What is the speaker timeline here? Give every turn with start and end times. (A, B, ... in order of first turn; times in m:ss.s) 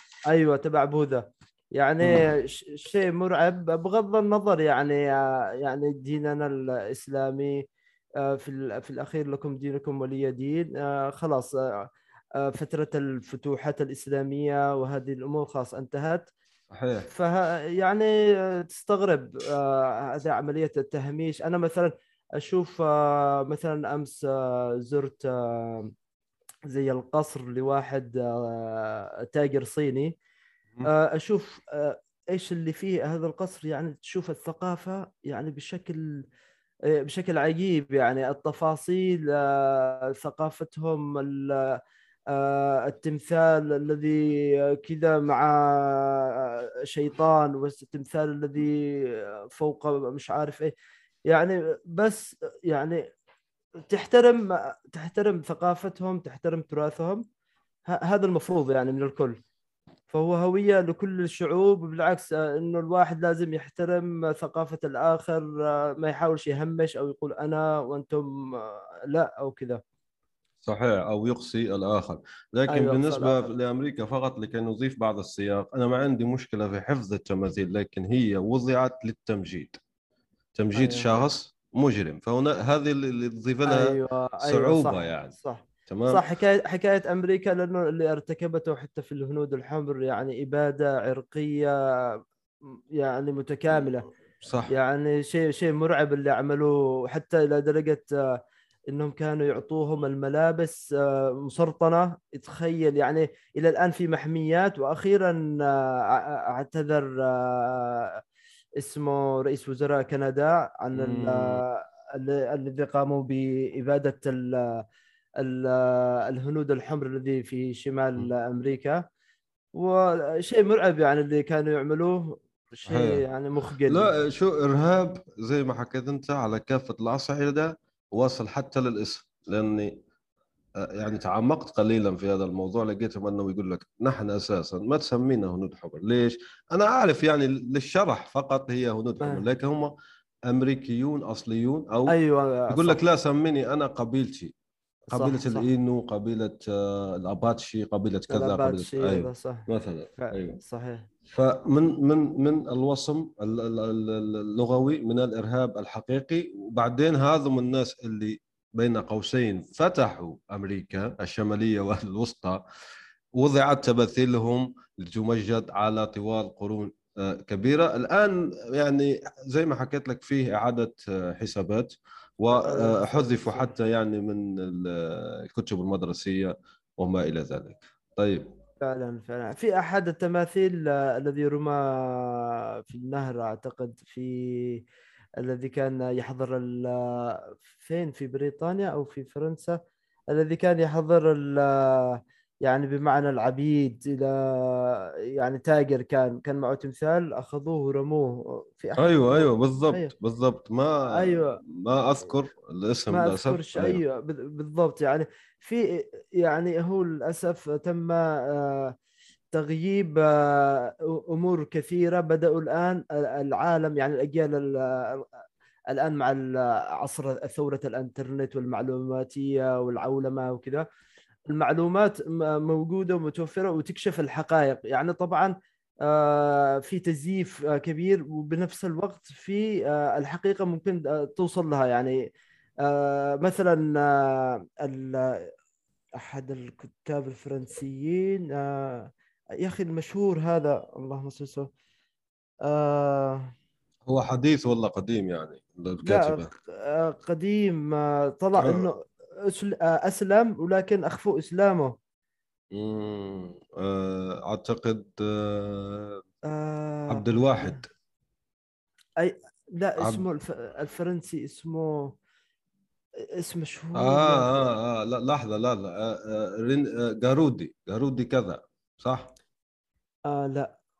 0:00.3-0:07.6 A
0:08.2-0:11.8 A
0:12.4-0:16.3 A
0:16.7-0:17.1 B
0:17.1-0:25.9 A
0:26.7-0:30.1 A
0:30.8-0:36.2 A
0:37.0-0:41.8 A
0:42.3-0:50.7 A
0:51.3-0:53.0 A
0:53.9-0:57.2 A
0:57.9-0:59.4 A
1:00.1-1:09.8 A
1:10.6-1:19.8 B
1:12.7-1:13.5 A
1:20.6-1:25.4 B
1:20.8-1:21.3 A
1:23.7-1:31.7 A
1:25.9-1:26.2 B
1:33.0-1:34.1 A
1:34.4-1:34.7 B
1:34.7-1:38.1 A
1:38.9-1:48.1 A
1:48.8-1:54.8 A
1:51.0-1:51.6 B
1:55.4-1:59.0 A
1:59.8-2:04.1 A
2:02.9-2:03.2 B
2:03.9-2:10.0 B
2:10.8-2:19.9 B
2:20.5-2:22.2 B
2:22.1-2:23.0 A
2:22.7-2:24.5 B
2:25.1-2:30.6 B
2:25.1-2:25.7 A
2:28.3-2:29.7 A
2:30.2-2:31.1 A
2:31.3-2:42.6 B
2:43.4-2:58.5 B
2:52.5-2:53.7 A
2:58.8-3:04.8 A
3:05.4-3:09.8 A
3:10.3-3:20.1 A
3:19.0-3:24.0 B
3:21.1-3:21.6 A
3:23.1-3:28.9 A
3:29.5-3:35.3 A
3:35.9-3:40.9 A
3:41.5-3:45.5 A
3:46.0-3:52.2 A
3:52.8-3:55.5 A
3:56.2-4:01.7 A
4:02.6-4:03.5 A
4:04.1-4:06.5 B
4:06.0-4:11.9 A
4:08.6-4:08.9 B
4:12.7-4:16.2 B
4:16.5-4:17.8 A
4:17.1-4:17.9 B
4:19.2-4:22.1 A
4:23.4-4:24.6 A
4:24.0-4:29.3 B
4:30.3-4:30.7 A